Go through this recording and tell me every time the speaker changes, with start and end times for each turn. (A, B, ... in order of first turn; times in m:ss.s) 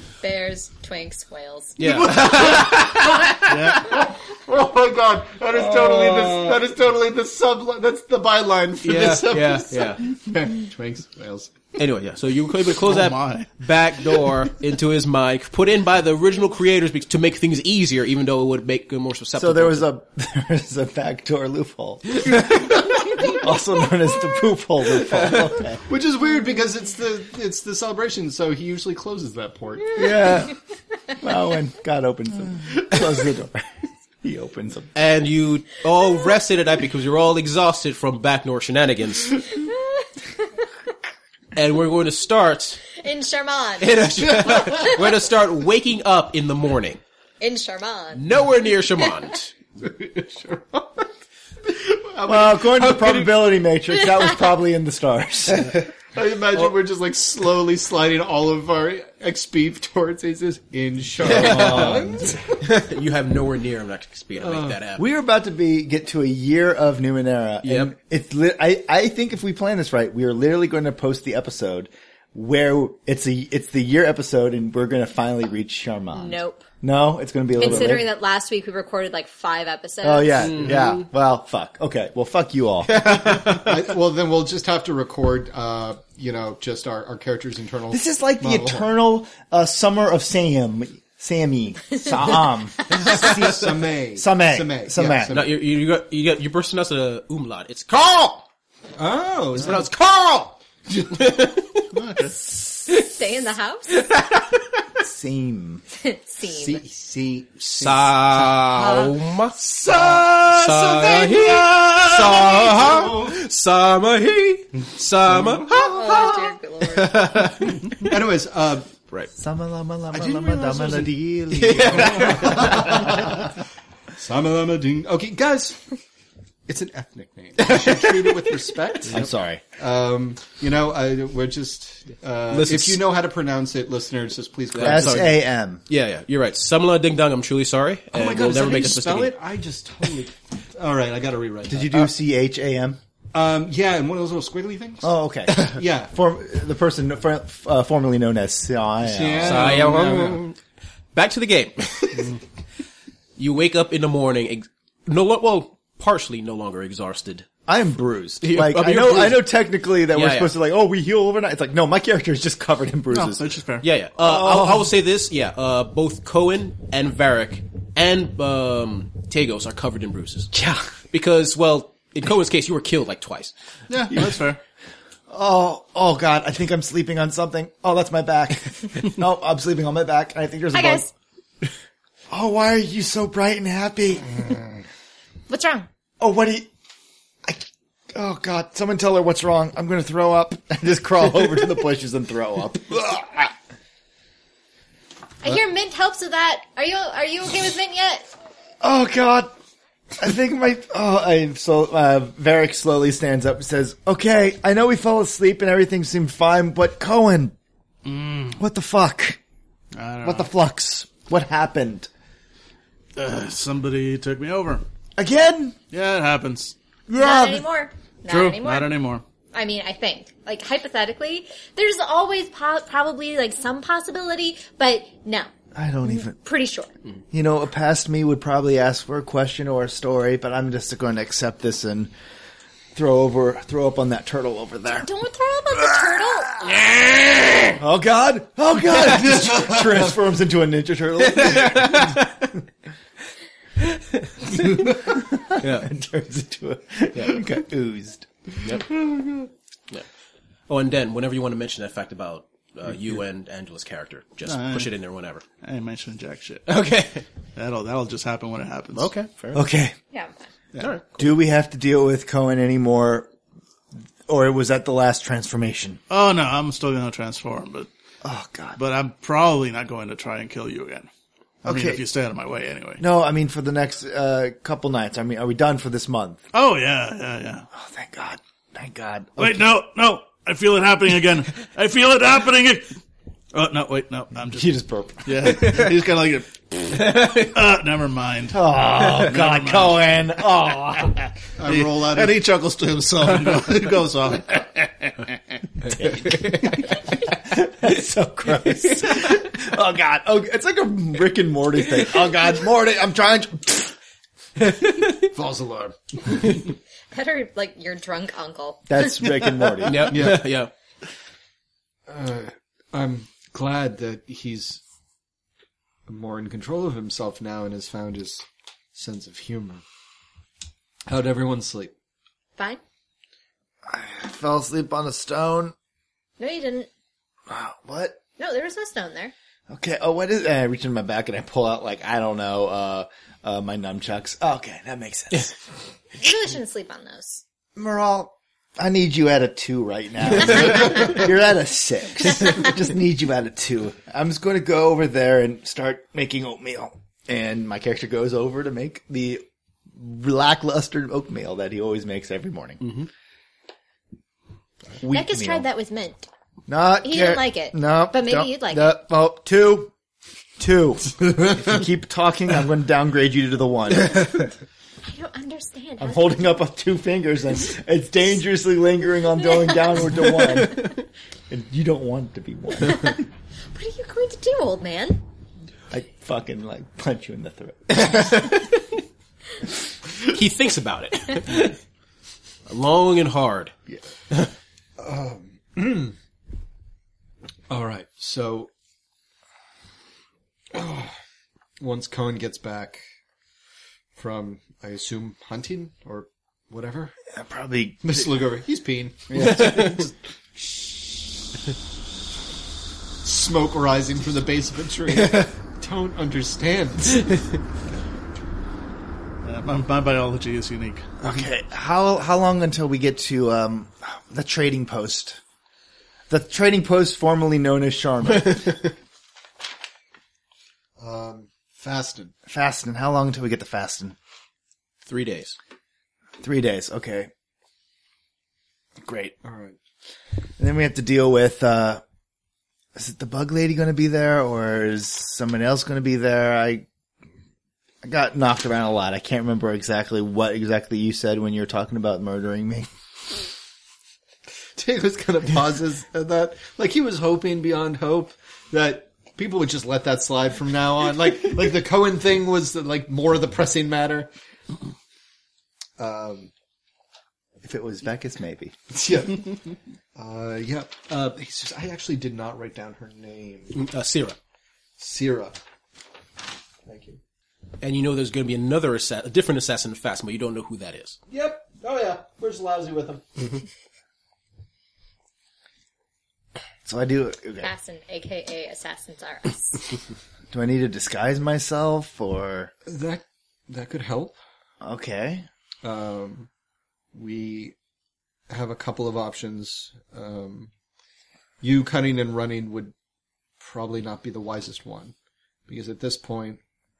0:00.2-0:02.1 A
0:01.8-0:04.0 B
0:02.2-0:02.9 C
0:02.4-0:02.7 D
0:03.4-0:03.9 C
0:03.8-0:11.7 D
0:08.8-0:10.0 B
0:11.8-0:19.9 B
0:12.8-0:13.5 C
0:19.4-0:25.8 E
0:25.9-0:30.0 D
0:29.9-0:30.6 E
0:31.2-0:34.9 E
0:35.0-0:39.5 B
0:39.5-0:40.7 A
0:41.6-0:42.8 B
0:42.9-0:45.0 A
0:43.8-0:47.0 B
0:47.4-0:48.2 A
0:48.1-0:49.5 B
0:49.8-0:51.1 D
0:51.6-0:53.4 D
0:52.3-0:55.8 E
0:55.6-1:02.6 D
1:01.2-1:05.0 B
1:01.6-1:02.1 E
1:04.4-1:04.8 D
1:05.0-1:18.1 E
1:07.6-1:07.9 B
1:16.1-1:16.6 A
1:17.6-1:20.6 A
1:20.0-1:23.1 E
1:20.5-1:21.0 B
1:22.9-1:23.8 B
1:23.4-1:28.9 D
1:27.9-1:35.3 E
1:32.9-1:33.4 B
1:33.0-1:35.6 D
1:35.3-1:38.5 B
1:39.0-1:39.8 D
1:39.6-1:41.9 B
1:41.9-1:42.4 C
1:42.8-1:43.1 B
1:42.9-1:44.0 A
1:43.9-1:44.6 B
1:45.0-1:45.8 E
1:46.0-1:46.8 A
1:46.5-1:53.4 D
1:47.8-1:58.2 B
1:55.3-1:56.0 D
1:55.7-1:57.4 A
1:57.9-1:58.9 D
1:59.4-2:03.3 E
2:00.1-2:03.6 D
2:01.5-2:03.1 B
2:04.2-2:05.8 D
2:06.7-2:15.4 D
2:07.6-2:08.7 B
2:09.1-2:09.6 E
2:12.5-2:13.0 B
2:14.7-2:19.4 B
2:14.8-2:15.8 E
2:18.1-2:22.0 D
2:21.7-2:23.0 E
2:23.3-2:26.1 D
2:25.0-2:29.8 E
2:29.0-2:30.4 D
2:29.4-2:30.6 B
2:31.1-2:32.4 B
2:33.4-2:37.5 B
2:37.7-2:43.5 E
2:38.4-2:39.5 B
2:40.1-2:40.5 B
2:43.1-2:43.9 C
2:43.8-2:53.5 B
2:44.2-2:44.9 E
2:50.5-2:50.9 E
2:53.9-2:54.6 C
2:54.1-2:54.4 E
2:55.3-3:01.1 E
3:00.7-3:01.1 A
3:02.3-3:04.6 E
3:05.5-3:05.9 A
3:06.2-3:06.7 E
3:07.4-3:13.5 E
3:15.4-3:18.3 A
3:18.8-3:19.5 E
3:20.2-3:27.6 E
3:28.0-3:28.6 C
3:28.6-3:29.4 E
3:29.9-3:30.5 C
3:30.2-3:32.1 E
3:33.2-3:34.8 C
3:35.2-3:35.8 E
3:35.9-3:36.8 C
3:37.1-3:37.7 E
3:37.2-3:39.0 A
3:38.3-3:39.2 C
3:39.5-3:45.5 A
3:45.8-3:46.4 E
3:46.1-3:46.9 A
3:47.3-3:52.1 E
3:53.0-3:55.1 E
3:55.0-3:56.7 A
3:55.8-3:56.3 E
3:56.9-3:57.7 B
3:57.8-4:02.2 E
4:01.3-4:02.3 B
4:03.8-4:05.0 B
4:05.0-4:09.5 E
4:05.6-4:05.9 B
4:10.7-4:15.4 B
4:14.4-4:14.9 C
4:15.6-4:16.7 C
4:16.7-4:17.3 B
4:17.6-4:19.1 C
4:18.9-4:19.6 B
4:19.5-4:19.9 E
4:20.1-4:20.4 A
4:20.8-4:21.2 B
4:21.2-4:23.3 E
4:24.3-4:26.0 E
4:26.1-4:27.9 C
4:28.2-4:28.8 E
4:28.8-4:31.1 C
4:31.6-4:32.0 E
4:31.6-4:33.0 C
4:33.0-4:36.5 E
4:36.5-4:37.7 C
4:37.7-4:39.7 E
4:39.4-4:42.9 C
4:43.5-4:44.7 C
4:44.5-4:45.9 E
4:45.2-4:50.0 C
4:47.0-4:47.5 B
4:48.5-4:51.4 E
4:51.6-4:52.4 D
4:51.7-4:55.4 C
4:56.0-5:04.0 E
4:56.2-4:56.7 B
5:04.6-5:05.3 B
5:05.3-5:06.0 D
5:07.1-5:09.5 A
5:08.9-5:10.2 E
5:09.8-5:10.7 B
5:10.1-5:10.4 D
5:12.1-5:14.8 D
5:16.1-5:19.8 D
5:21.1-5:21.9 D
5:23.9-5:25.7 E
5:26.4-5:26.9 A
5:27.5-5:28.2 E
5:28.4-5:29.3 A
5:29.7-5:35.6 E
5:36.2-5:37.4 A
5:37.8-5:53.0 E
5:55.0-5:55.7 E
5:55.1-5:56.3 A
5:56.7-5:59.9 E
5:57.0-5:59.0 A
6:00.6-6:04.5 E
6:05.0-6:06.4 A
6:06.0-6:10.9 E
6:09.5-6:09.8 A
6:11.5-6:13.2 E
6:12.9-6:13.2 A
6:13.7-6:15.2 A
6:15.9-6:18.5 E
6:18.0-6:18.6 B
6:20.2-6:21.8 B
6:22.7-6:23.7 B
6:25.0-6:26.2 D
6:27.7-6:28.7 D
6:30.7-6:31.1 D
6:31.8-6:33.0 D
6:34.2-6:37.2 D
6:37.3-6:38.3 E
6:38.0-6:40.1 D
6:39.3-6:39.9 E
6:39.4-6:40.0 B
6:43.2-6:47.4 D
6:49.4-6:51.1 C
6:51.2-6:55.4 E
6:56.3-6:58.8 E
7:01.0-7:02.3 D
7:02.5-7:04.2 E
7:05.0-7:05.6 B
7:06.4-7:07.3 E
7:09.0-7:09.4 E
7:09.4-7:09.8 D
7:10.6-7:12.0 E
7:13.0-7:16.9 E
7:18.0-7:22.9 E
7:24.8-7:34.3 D
7:36.0-7:36.5 D
7:37.6-7:38.8 E
7:38.9-7:43.8 D
7:43.7-7:44.4 B
7:45.0-7:45.6 D
7:46.9-7:47.2 D
7:47.8-7:51.2 B
7:51.3-7:53.5 D
7:56.8-7:57.7 E
7:57.6-7:59.9 A
8:00.5-8:02.7 E
8:02.9-8:04.4 D
8:04.8-8:05.5 E
8:05.8-8:06.5 D
8:07.1-8:07.8 D
8:08.5-8:10.7 D
8:11.6-8:12.9 D
8:13.6-8:15.1 D
8:15.7-8:16.6 D